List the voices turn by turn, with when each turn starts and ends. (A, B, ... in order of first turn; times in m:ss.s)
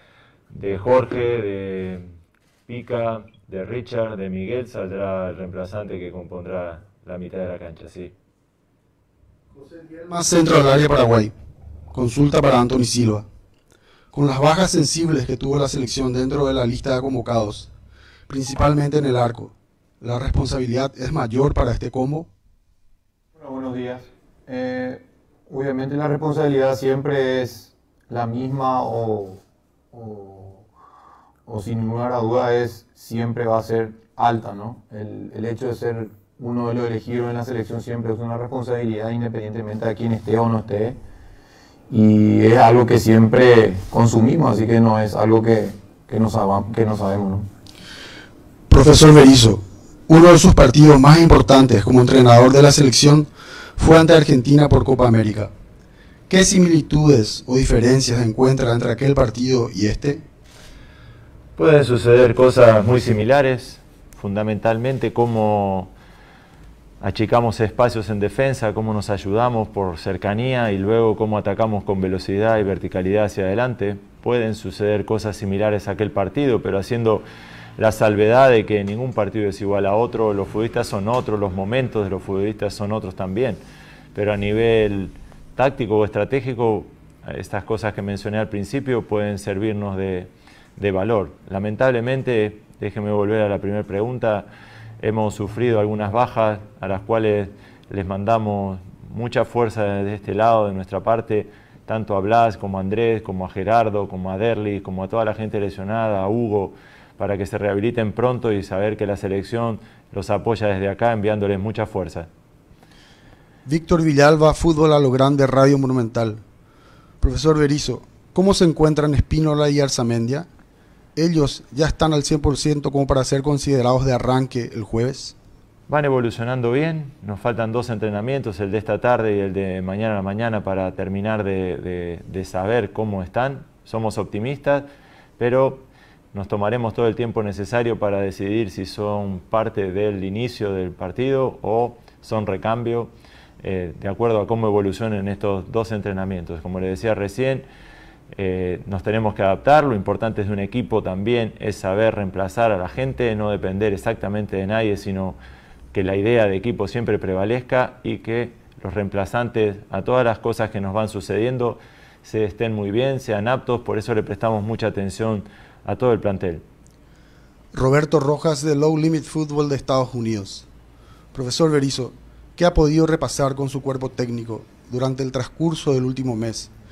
0:00.5-0:02.2 A
0:02.7-0:08.1 A
0:09.5-0:11.3 B
0:11.9-0:13.2 B
0:14.1-0:17.7 B
0:18.3-0:22.3 B
0:23.4-0:30.6 C
0:31.4-0:41.0 C
0:41.9-0:47.5 C
0:48.7-0:55.5 B
0:56.3-1:00.2 B
1:01.6-1:05.9 A
1:07.0-1:17.2 A
1:17.8-1:23.6 A
1:24.1-1:34.5 A
1:35.0-1:52.3 A
1:53.6-1:56.4 B
1:57.2-2:00.5 B
2:01.2-2:05.3 B
2:05.9-2:14.9 A
2:15.4-2:27.6 A
2:28.3-2:35.4 A
2:35.9-2:46.6 A
2:47.7-2:50.6 B
2:51.3-2:56.7 B